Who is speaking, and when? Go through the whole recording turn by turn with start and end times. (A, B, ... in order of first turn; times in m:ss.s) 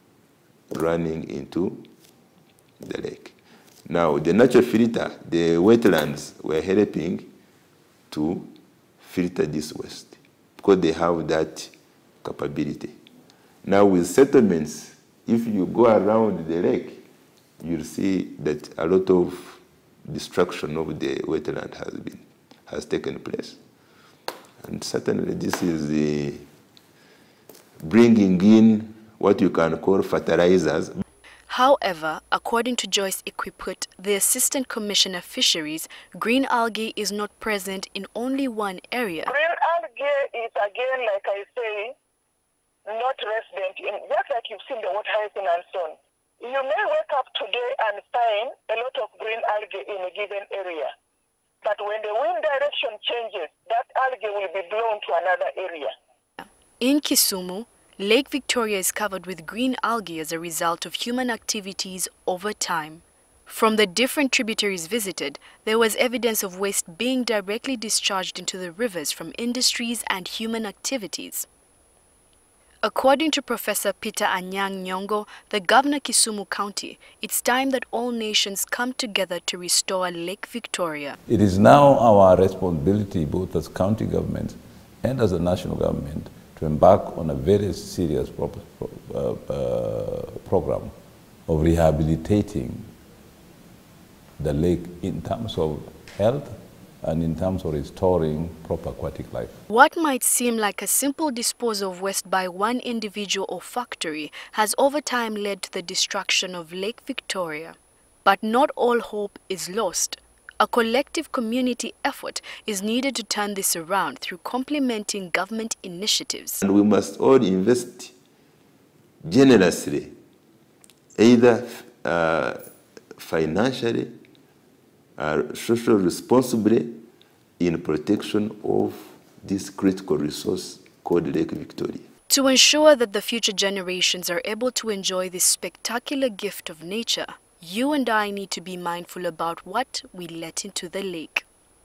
0:00.7-0:01.8 A
0:02.8-0:03.3 A
0:03.9-0:07.3 A
0:08.1-0:08.5 A
0:09.0-0:11.7 A
0:12.2-0:13.0 A
0:13.6-0:17.0 A
0:17.6-0:23.6 A
0:24.6-0:26.4 A
0:27.8-0:31.0 A
0:31.5-0:39.3 B
0:39.2-0:41.9 C
0:42.9-0:50.9 C
0:51.6-0:55.9 C
0:56.8-1:11.5 B
1:12.8-1:21.2 B
1:21.3-1:30.9 D
1:31.5-1:32.9 D
1:34.4-1:39.6 D
1:39.7-1:56.6 B
1:56.6-1:58.1 A
1:59.2-2:00.1 A
2:01.2-2:02.6 A
2:03.2-2:04.2 A
2:05.2-2:07.0 A
2:07.6-2:12.1 A
2:12.3-2:21.5 B